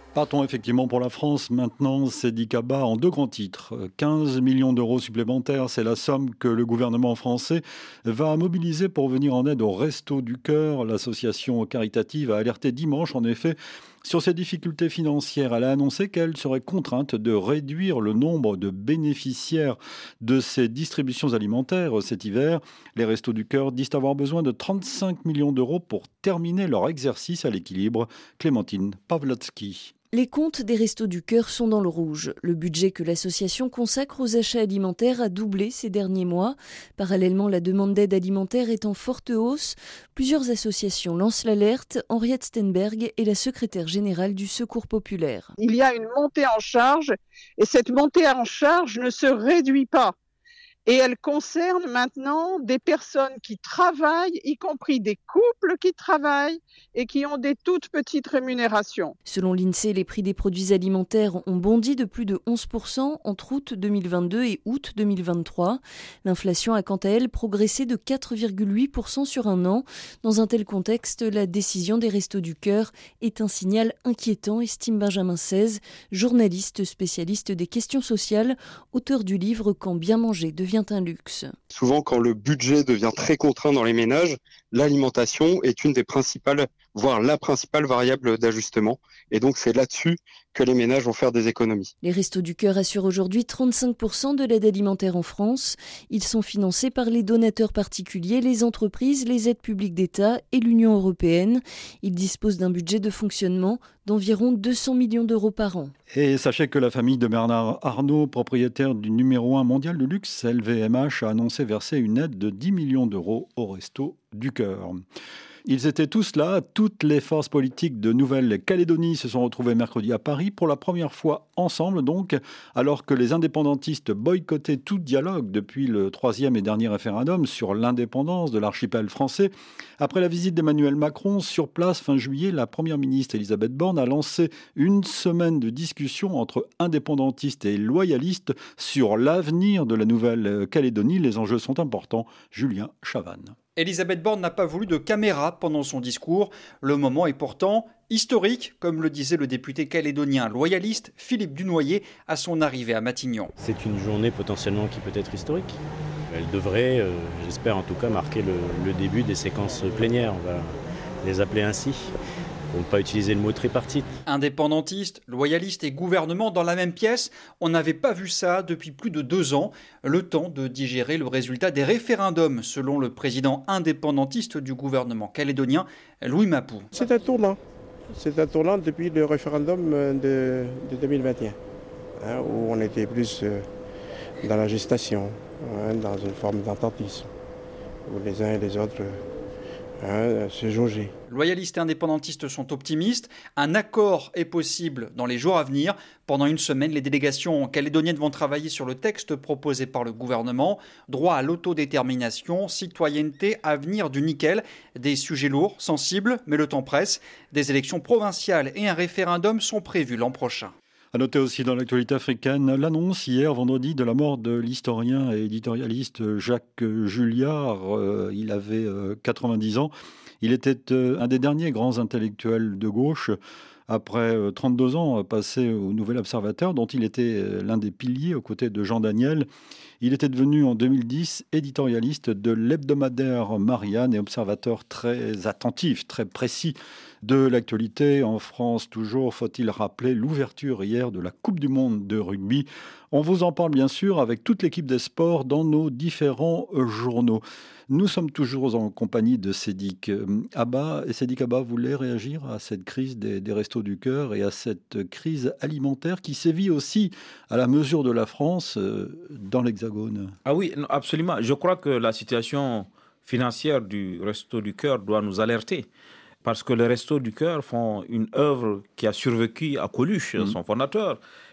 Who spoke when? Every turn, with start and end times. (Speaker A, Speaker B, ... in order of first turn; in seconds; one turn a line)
Speaker A: 0.1-29.9
Speaker B: 30.1-45.5
Speaker C: 45.6-50.1
Speaker C: 50.9-59.1
Speaker B: 59.2-81.6
Speaker D: 81.7-91.9
Speaker B: 92.0-105.9
Speaker A: 106.1-115.0
Speaker A: 115.6-143.6
Speaker E: 143.8-153.5
Speaker F: 153.6-162.1
Speaker F: 162.7-164.1
Speaker E: 164.3-176.9
Speaker G: 176.9-177.6
Speaker G: 178.1-181.6
Speaker G: 182.2-183.7
Speaker G: 184.4-187.3
Speaker G: 188.1-189.2
Speaker G: 190.0-191.1
Speaker E: 191.3-210.7
Speaker A: 211.1-223.4
Speaker A: 223.9-229.5
Speaker A: 230.0-260.3
Speaker H: 260.4-265.9
Speaker H: 266.4-271.2